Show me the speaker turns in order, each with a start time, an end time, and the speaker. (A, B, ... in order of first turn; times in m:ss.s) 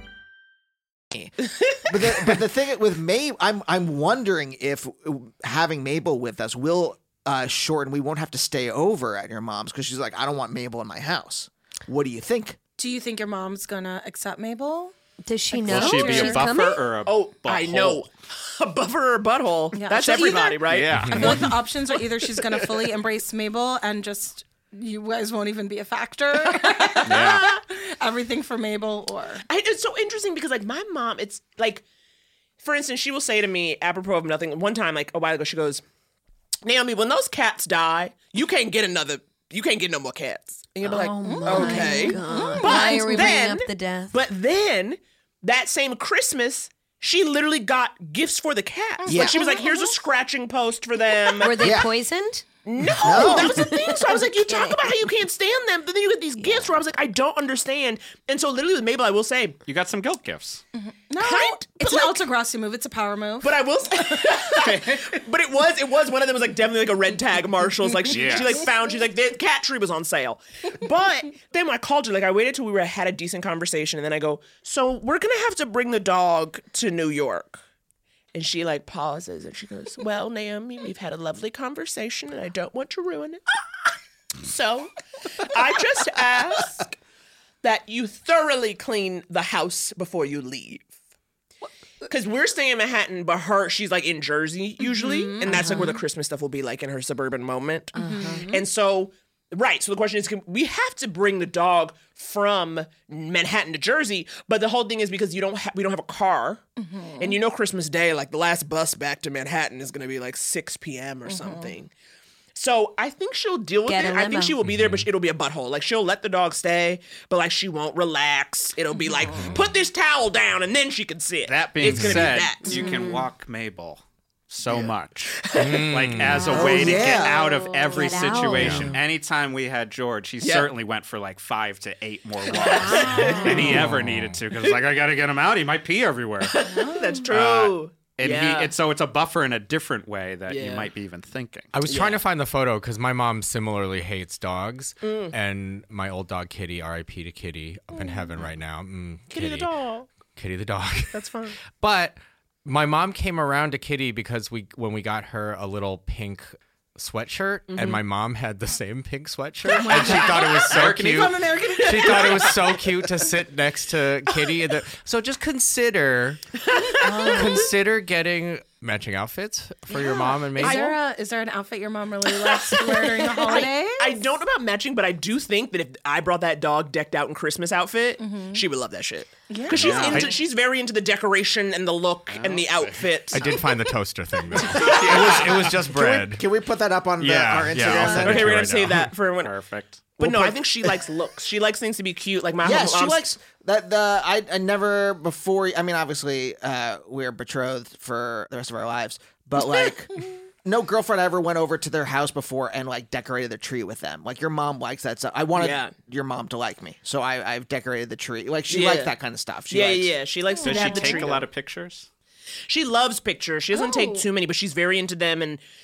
0:01.8-0:12.6 A
0:12.8-0:14.9 B
0:15.2-0:16.8 C
0:15.6-0:18.0 D
0:15.6-0:16.4 B
0:17.0-0:21.2 E
0:19.7-0:29.4 B
0:20.7-0:21.4 D
0:20.8-0:21.5 F
0:26.8-0:27.5 E
0:29.5-0:31.8 E
0:32.6-0:35.8 E
0:36.6-0:51.6 E
0:40.8-0:44.2 C
0:41.2-0:43.3 B
0:49.0-0:49.9 B
0:49.1-0:49.4 A
0:51.4-0:52.4 C
0:51.6-0:51.9 A
0:52.6-0:59.6 E
0:53.0-0:53.7 A
0:53.0-0:54.9 C
0:56.4-0:56.7 C
0:59.6-1:00.6 D
1:00.8-1:04.4 B
1:01.2-1:02.2 E
1:03.4-1:17.6 E
1:08.1-1:08.7 D
1:18.3-1:23.4 E
1:24.4-1:26.9 E
1:27.6-1:30.9 E
1:32.1-1:46.6 E
1:34.8-1:36.0 B
1:38.0-1:38.6 B
1:46.8-1:47.4 B
1:47.2-1:51.9 E
1:51.2-1:51.7 B
1:52.5-2:02.9 E
1:53.8-1:54.6 C
1:54.6-1:55.1 F
1:59.3-1:59.6 F
2:01.5-2:16.6 D
2:01.8-2:02.4 F
2:02.7-2:03.2 C
2:04.6-2:05.9 E
2:05.6-2:06.6 F
2:06.5-2:07.6 A
2:07.2-2:08.9 C
2:08.5-2:09.0 F
2:10.4-2:10.7 E
2:12.5-2:13.9 E
2:12.9-2:13.4 B
2:13.0-2:13.3 C
2:13.7-2:14.4 F
2:16.4-2:18.7 E
2:16.6-2:17.2 B
2:17.3-2:21.7 D
2:20.5-2:20.9 E
2:21.7-2:29.7 F
2:21.9-2:22.2 E
2:25.0-2:25.3 E
2:29.3-2:30.1 E
2:30.4-2:31.2 F
2:31.1-2:31.5 E
2:31.7-2:46.4 F
2:37.7-2:38.0 E
2:39.6-2:42.5 B
2:39.8-2:42.5 D
2:46.8-2:47.6 E
2:47.0-2:51.0 F
2:47.2-2:47.5 B
2:49.9-2:54.2 B
2:50.6-2:50.9 E
2:52.3-3:03.5 E
2:58.2-2:58.6 B
2:59.5-3:00.3 B
2:59.7-3:00.4 D
3:02.3-3:03.0 D
3:03.3-3:06.4 F
3:04.8-3:05.7 D
3:05.9-3:08.6 A
3:07.2-3:09.1 F
3:08.1-3:09.5 E
3:09.4-3:10.2 D
3:10.2-3:13.2 E
3:10.2-3:10.5 A
3:12.6-3:20.1 A
3:20.6-3:30.2 A
3:25.6-3:25.9 E
3:28.7-3:29.1 E
3:29.7-3:31.4 E
3:30.6-3:31.2 B
3:30.6-3:32.1 D
3:32.7-3:35.6 E
3:33.7-3:34.2 B